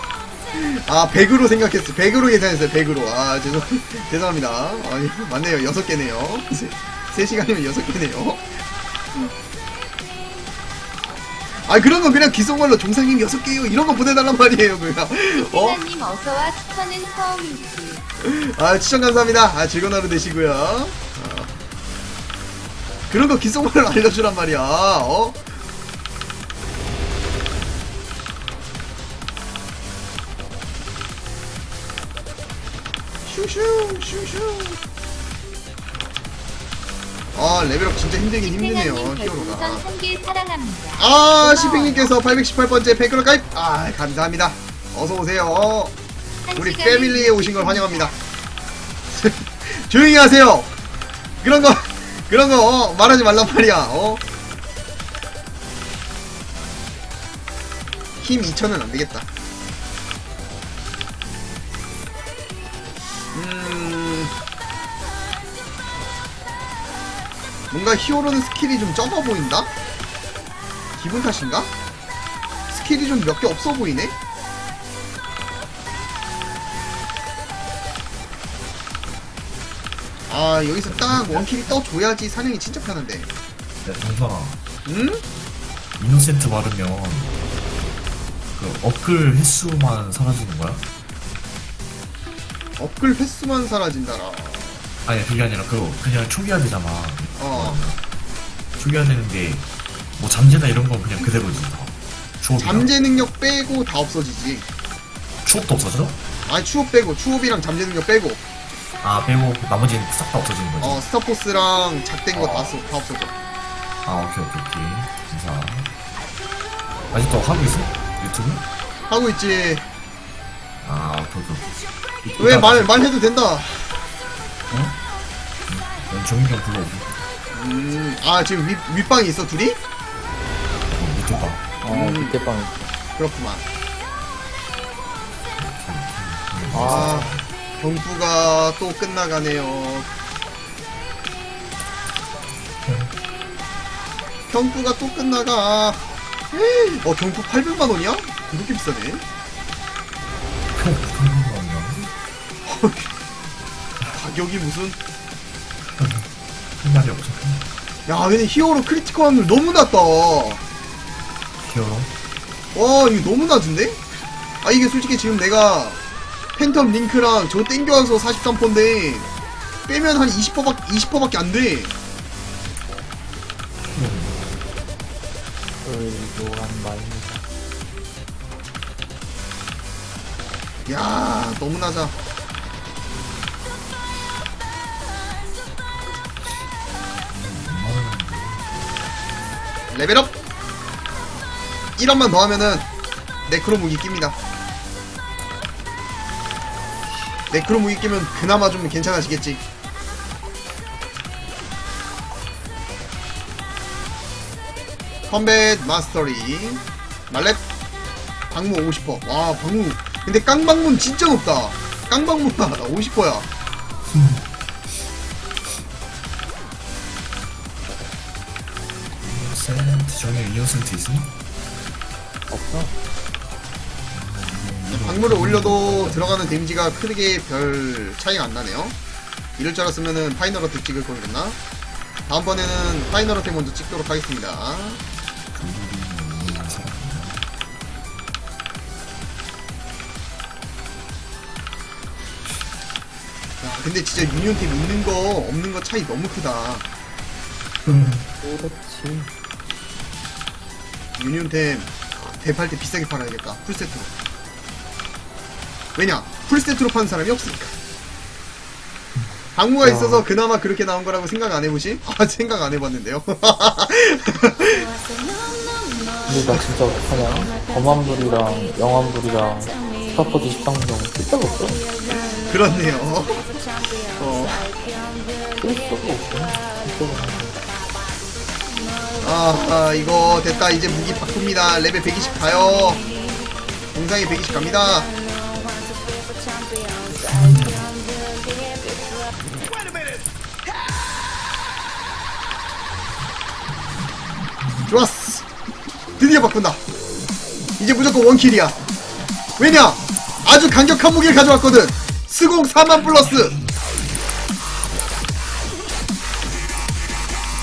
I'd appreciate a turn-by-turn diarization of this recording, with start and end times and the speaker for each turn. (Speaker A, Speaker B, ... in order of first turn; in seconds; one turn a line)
Speaker A: 0.5-8.4
Speaker A: 11.7-15.8
Speaker B: 15.4-18.0
Speaker A: 18.2-21.5
Speaker A: 23.1-25.4
Speaker A: 33.3-34.8
Speaker A: 37.4-39.9
Speaker B: 38.4-42.1
Speaker A: 41.0-45.9
Speaker B: 46.5-48.1
Speaker A: 46.6-48.1
Speaker A: 49.1-50.7
Speaker A: 51.4-54.2
Speaker A: 58.2-59.3
Speaker A: 63.3-64.3
Speaker A: 67.7-69.7
Speaker A: 71.0-71.7
Speaker A: 72.7-74.1
Speaker A: 80.3-83.3
Speaker C: 80.9-81.5
Speaker C: 83.8-84.6
Speaker A: 84.9-85.2
Speaker C: 86.0-87.3
Speaker C: 88.5-90.8
Speaker A: 92.8-94.8
Speaker C: 95.0-98.0
Speaker A: 97.4-97.8
Speaker C: 98.8-102.9
Speaker A: 102.6-104.7
Speaker C: 105.4-106.2
Speaker A: 106.5-108.4
Speaker C: 109.0-111.0
Speaker A: 110.8-113.3
Speaker C: 112.3-112.8
Speaker C: 114.0-115.9
Speaker C: 117.1-118.7
Speaker A: 119.1-119.9
Speaker C: 120.8-122.9
Speaker A: 122.4-124.0
Speaker C: 124.7-125.0
Speaker C: 125.7-127.2
Speaker A: 127.5-129.8
Speaker C: 130.9-131.6
Speaker D: 131.8-132.9
Speaker A: 131.9-132.4
Speaker A: 133.2-133.7
Speaker C: 135.6-137.4
Speaker D: 136.7-137.3
Speaker A: 136.8-140.1
Speaker C: 142.8-143.1
Speaker A: 144.5-149.2
Speaker C: 150.8-152.1
Speaker A: 152.7-153.1
Speaker A: 154.1-155.0
Speaker C: 155.9-156.3
Speaker C: 156.8-157.7
Speaker A: 158.1-160.6
Speaker C: 161.6-162.1
Speaker A: 162.8-164.0
Speaker A: 164.6-166.0
Speaker A: 166.6-169.3
Speaker A: 169.9-171.9
Speaker C: 173.8-174.6
Speaker D: 175.8-177.4
Speaker A: 180.9-182.1
Speaker C: 187.3-188.9
Speaker A: 189.9-190.3
Speaker A: 192.0-192.9
Speaker A: 193.5-194.4
Speaker A: 197.5-199.6
Speaker A: 205.3-207.6
Speaker A: 208.5-213.5
Speaker C: 214.1-214.5
Speaker C: 219.2-221.3
Speaker C: 222.5-222.9
Speaker C: 224.1-226.4
Speaker A: 224.9-228.9
Speaker A: 229.6-231.6
Speaker A: 232.3-235.0
Speaker C: 235.5-237.5
Speaker A: 243.6-246.8
Speaker C: 247.8-248.3
Speaker D: 248.4-249.3
Speaker A: 251.2-254.1
Speaker A: 256.0-257.8
Speaker A: 259.6-264.9
Speaker D: 259.8-260.3
Speaker D: 266.3-271.9
Speaker A: 272.4-274.7
Speaker D: 275.6-277.6
Speaker A: 279.2-283.0
Speaker A: 283.9-285.1
Speaker C: 287.1-287.9
Speaker A: 294.9-295.4
Speaker A: 296.2-296.8
Speaker A: 297.8-298.8
Speaker A: 299.6-303.6